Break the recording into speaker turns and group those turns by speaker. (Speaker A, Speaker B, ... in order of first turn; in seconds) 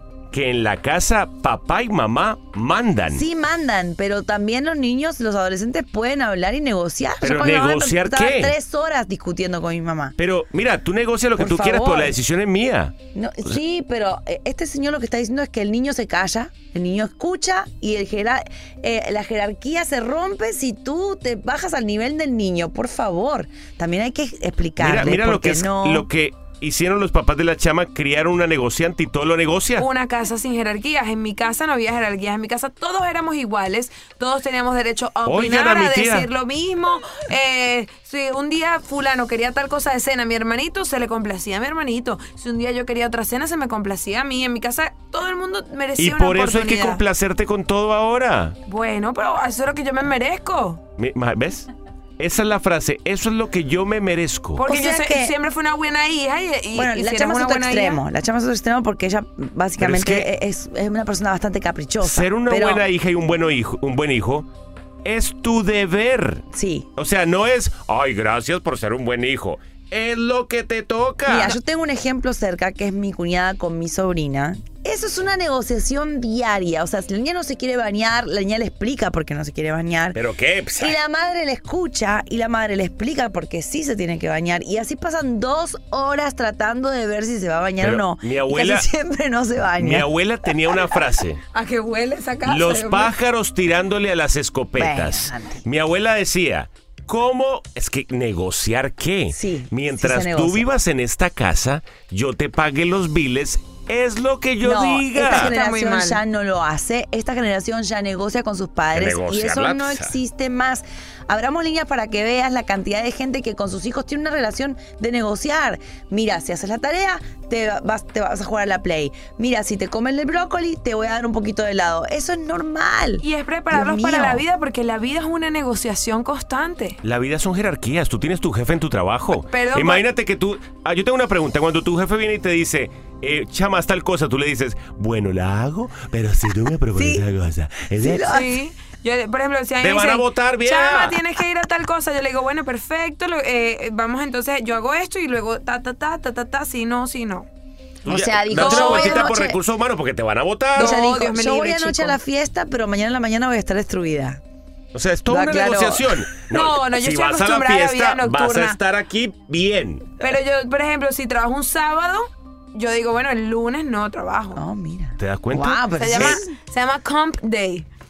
Speaker A: 0.3-3.2, 7.2-8.5, 10.2-12.9, 24.8-29.9, 35.3-36.3, 46.0-48.6, 51.0-54.6, 59.8-60.3, 62.0-64.5, 65.0-66.4, 67.0-71.6, 80.2-81.0, 87.8-88.9, 89.8-91.4, 92.5-105.5, 108.9-110.2, 127.0-138.3, 139.8-141.2, 148.1-151.0, 154.9-160.1, 165.2-166.4
Speaker B: 3.1-10.2, 11.4-12.2, 13.2-26.1, 54.6-55.4, 56.7-62.8, 66.5-66.9, 71.3-80.2, 80.8-90.1, 94.8-95.6, 99.3-100.7, 104.6-124.5, 136.9-137.2, 138.0-138.6, 148.1-149.6, 150.8-154.4, 155.3-156.2, 164.6-166.5
Speaker C: 29.8-47.0, 48.7-50.8, 54.6-58.0, 91.5-93.1, 105.3-106.2, 123.2-127.0, 129.5-130.0, 138.3-147.5, 148.5-149.3, 150.8-152.2, 156.5-158.8, 160.2-164.6, 166.0-167.9